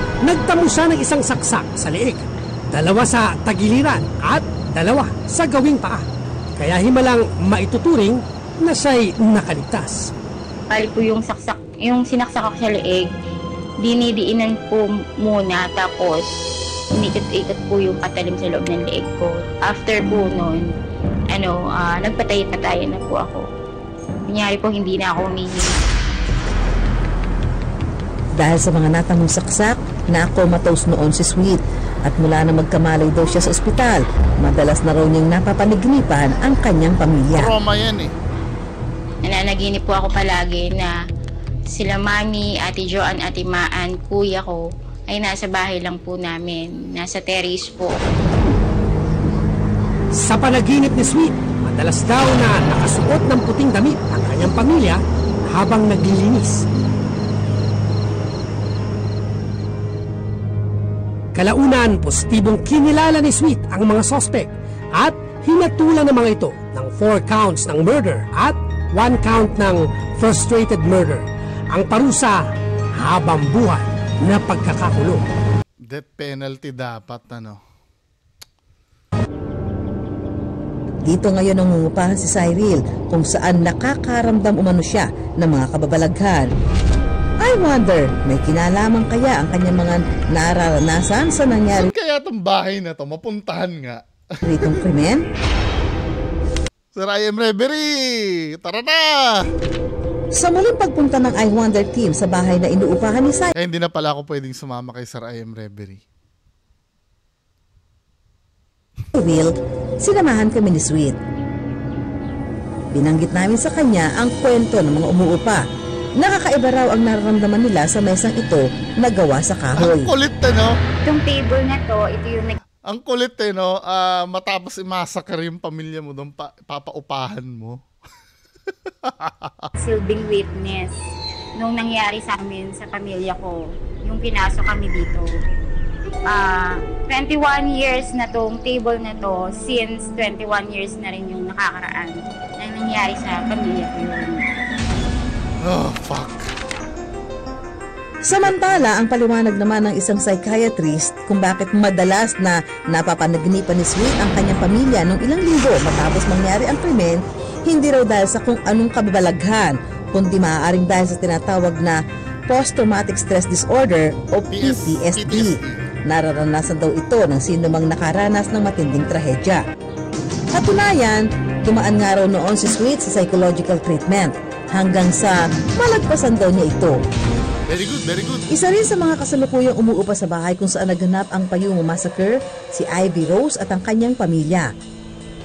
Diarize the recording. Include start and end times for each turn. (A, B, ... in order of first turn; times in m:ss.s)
0:00.2-0:06.0 A
0:06.6-0:10.1 A
0:10.7-0:13.1 B
0:13.8-0:16.2 B
0:16.9-0:20.7 B
0:21.3-0:23.4 B
0:24.3-0:25.7 B
0:28.4-0:37.5 C
0:37.3-0:38.1 D
0:39.2-0:40.9 B
0:41.7-0:48.0 B
0:50.2-0:56.6 A
1:01.3-1:12.4 A
1:13.0-1:15.2 A
1:15.9-1:17.6 D
1:21.1-1:26.5 C
1:27.4-1:31.9 C
1:31.8-1:34.0 D
1:34.4-1:35.2 C
1:36.9-1:39.5 D
1:40.4-1:43.5 C
1:43.6-1:46.0 D
1:49.1-1:51.2 C
1:52.9-1:55.6 C
1:56.2-2:00.1 C
1:59.8-2:00.7 D
2:01.0-2:02.6 B
2:02.9-2:07.8 D
2:09.0-2:09.7 D
2:09.8-2:10.9 B
2:11.6-2:15.3 B
2:16.3-2:24.4 B
2:25.6-2:26.5 D
2:28.2-2:42.0 C
2:42.5-2:49.6 C
2:44.5-2:45.9 D
2:50.5-2:57.0 C
2:57.7-2:58.4 D
2:58.5-3:04.7 C